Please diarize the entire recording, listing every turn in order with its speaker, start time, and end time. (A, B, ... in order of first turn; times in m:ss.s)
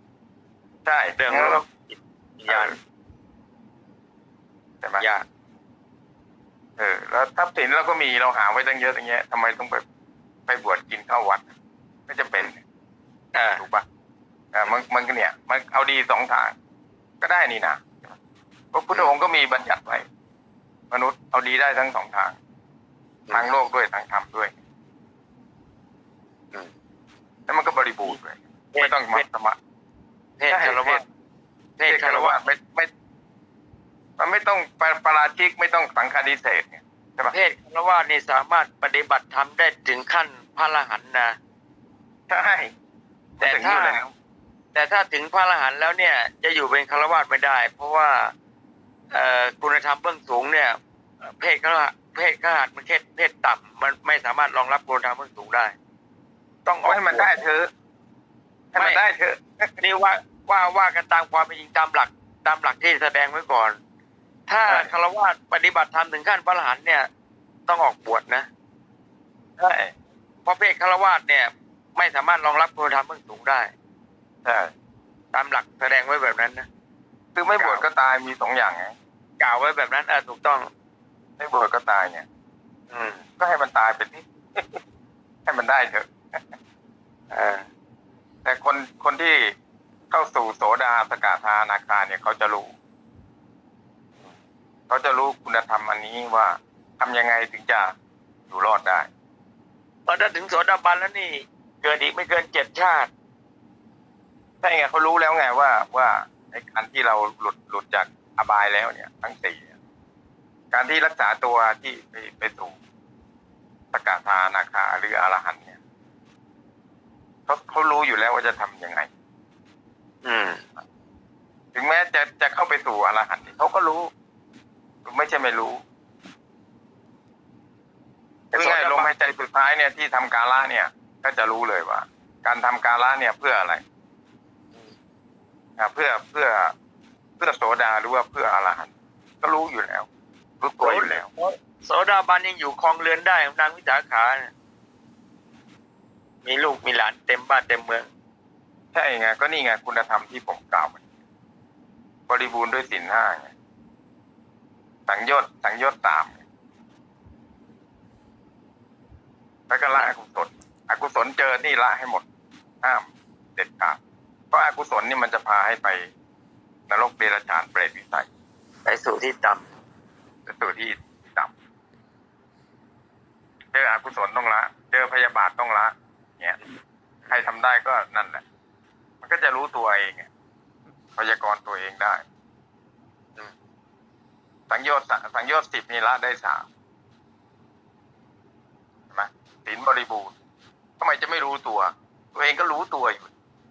0:00.8-0:01.6 A
0:01.2-0:02.8 B
0:02.5-0:02.8 A
0:05.0-0:05.2 B
0:06.8-0:09.8 A
0:10.5-0:11.5 A
0:12.1-0:12.6 A
0:13.3-0:13.6 B
0:13.6-0:13.8 A
0:14.5-0:16.5 A
0:17.2-0:18.2 A
0:18.7-0:20.0 A
0:20.9-0:22.4 A
0:23.3-0:24.6 A
0:27.5-0:29.6 A
0:28.7-0:29.2 B
0:30.4-0:31.0 B
0:30.5-0:31.0 A
0:31.8-0:32.4 B
0:31.9-0:32.9 A
0:34.2-0:37.4 A
0:37.3-0:41.4 B
0:42.3-0:42.7 A
0:43.4-0:44.1 A
0:43.4-0:44.0 B
0:44.7-0:48.3 B
0:49.1-0:55.8 B
0:56.6-0:57.4 B
0:56.8-0:57.7 A
0:58.7-0:59.8 A
0:58.8-0:59.0 B
0:59.8-1:03.8 B
1:04.5-1:07.1 B
1:04.7-1:04.9 A
1:07.7-1:08.5 B
1:09.6-1:09.9 A
1:10.4-1:13.7 B
1:14.4-1:14.7 A
1:15.3-1:16.7 B
1:17.4-1:18.9 A
1:17.6-1:17.9 B
1:19.4-1:20.7 B
1:21.4-1:22.2 A
1:22.9-1:23.2 B
1:23.4-1:24.8 A
1:25.4-1:26.4 A
1:27.3-1:27.7 B
1:28.4-1:29.5 A
1:30.1-1:32.7 A
1:34.9-1:37.9 A
1:38.5-1:39.1 A
1:40.1-1:43.1 B
1:44.6-1:49.7 A
1:50.7-1:52.8 A
1:53.9-1:55.8 A
1:57.5-1:59.1 A
2:00.2-2:00.6 B
2:01.7-2:04.1 A
2:05.0-2:05.8 A
2:08.5-2:09.1 B
2:08.6-2:13.8 A
2:15.8-2:16.7 A
2:17.4-2:20.1 A
2:20.6-2:21.3 A
2:20.8-2:24.5 B
2:26.4-2:28.1 B
2:28.9-2:31.0 A
2:32.3-2:33.5 A
2:35.1-2:36.4 A
2:39.7-2:42.2 A
2:42.8-2:44.0 A
2:44.5-2:46.1 A
2:46.9-2:48.3 A
2:48.8-2:49.7 B
2:50.4-2:51.5 A
2:53.7-2:56.6 A
2:57.3-2:58.4 A
2:59.2-3:00.3 A
3:01.2-3:02.2 A
3:04.7-3:06.7 A
3:09.1-3:10.3 A
3:11.0-3:13.3 A